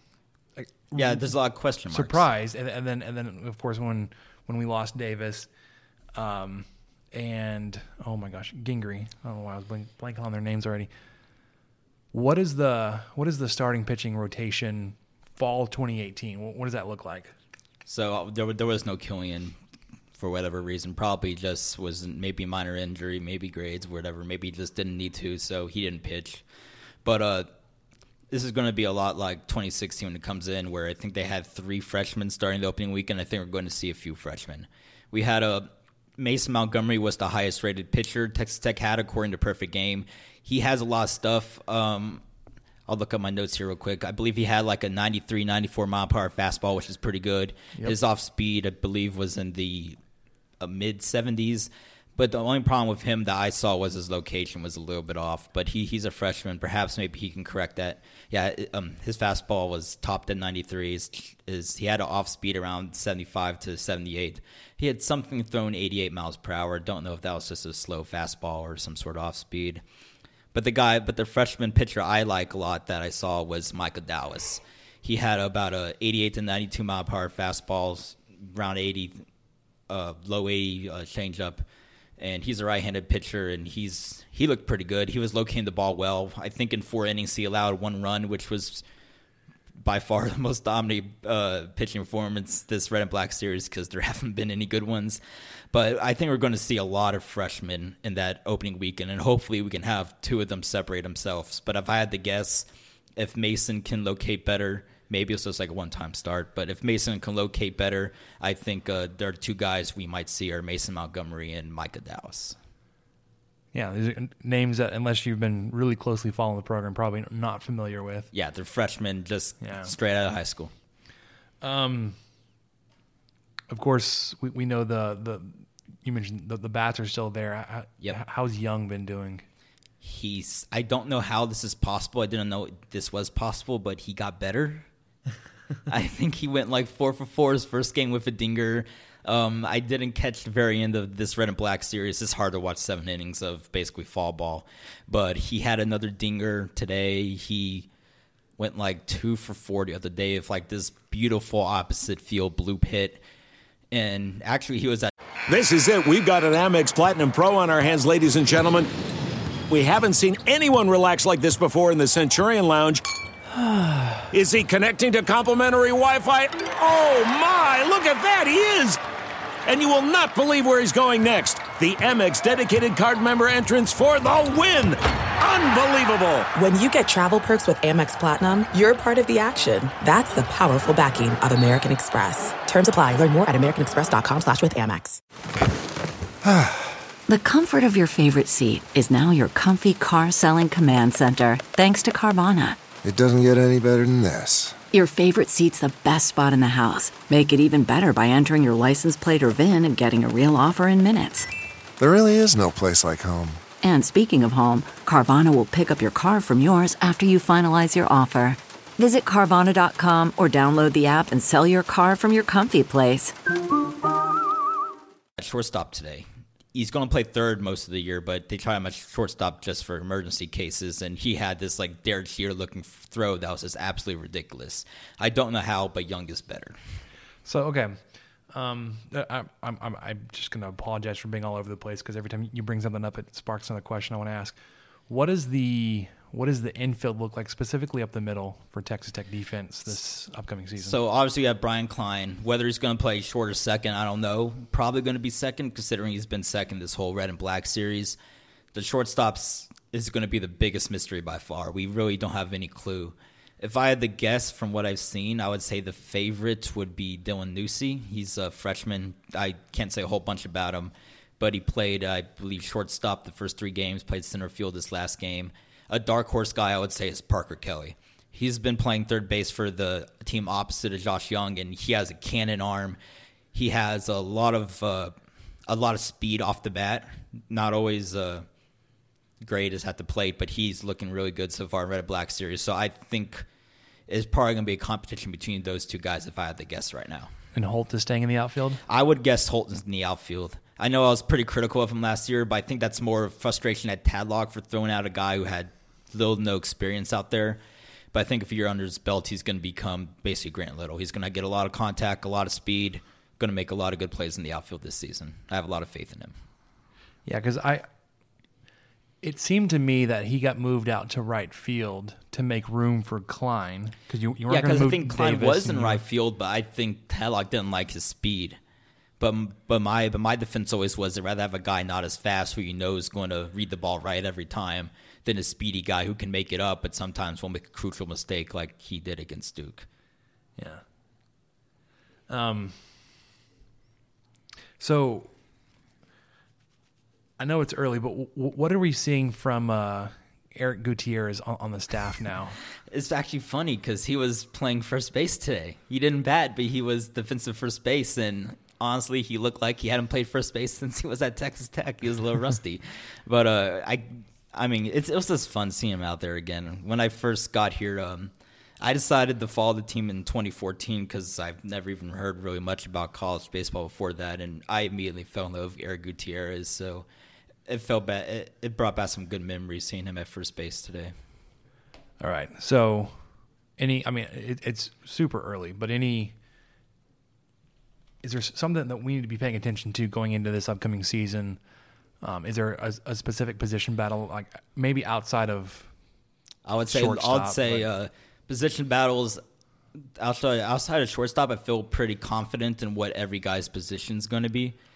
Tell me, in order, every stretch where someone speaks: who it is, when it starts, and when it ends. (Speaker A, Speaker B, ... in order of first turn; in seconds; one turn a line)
Speaker A: 0.6-1.3
Speaker B: 0.9-2.3
Speaker A: 1.9-5.5
Speaker A: 6.1-10.9
Speaker A: 12.1-17.3
Speaker B: 17.9-19.6
Speaker B: 20.1-26.4
Speaker B: 27.0-27.5
Speaker B: 28.3-42.2
Speaker B: 42.9-50.0
Speaker B: 50.6-69.8
Speaker B: 70.5-79.2
Speaker B: 79.9-81.6
Speaker B: 82.2-88.8
Speaker B: 89.8-112.5
Speaker A: 113.7-118.3
Speaker B: 118.3-120.7
Speaker A: 119.6-119.9
Speaker A: 121.6-122.2
Speaker A: 123.7-129.4
Speaker B: 130.0-134.9
Speaker B: 135.9-147.9
Speaker B: 148.6-153.2
Speaker B: 153.9-155.1
Speaker C: 155.5-158.9
Speaker C: 159.7-163.0
Speaker A: 163.6-164.2
Speaker C: 164.3-169.0
Speaker C: 169.7-176.5
Speaker D: 176.5-185.2
Speaker E: 186.4-186.9
Speaker F: 187.3-192.8
Speaker E: 193.0-194.8
Speaker F: 194.9-201.5
Speaker E: 202.0-203.6
Speaker F: 203.8-213.3
Speaker B: 215.4-226.8
Speaker A: 227.4-228.0
Speaker A: 228.5-234.6
Speaker A: 235.1-241.0
Speaker B: 240.8-248.2
Speaker B: 248.7-273.0
Speaker B: 273.5-275.1
Speaker B: 275.7-278.5
Speaker B: 279.4-283.5
Speaker B: 284.1-287.3
Speaker A: 287.5-288.8
Speaker B: 288.8-297.6
Speaker B: 298.1-306.3
Speaker A: 307.2-307.8
Speaker A: 309.2-316.0
Speaker B: 314.5-318.6
Speaker B: 319.2-329.9
Speaker A: 330.6-330.8
Speaker A: 332.3-332.8
Speaker A: 334.8-335.3
Speaker A: 337.4-342.6
Speaker B: 342.9-367.1
Speaker B: 367.6-371.1
Speaker A: 372.2-373.2
Speaker A: 373.8-376.3
Speaker A: 378.2-381.6
Speaker A: 382.2-385.9
Speaker B: 386.6-389.4
Speaker A: 386.9-387.9
Speaker B: 390.1-394.8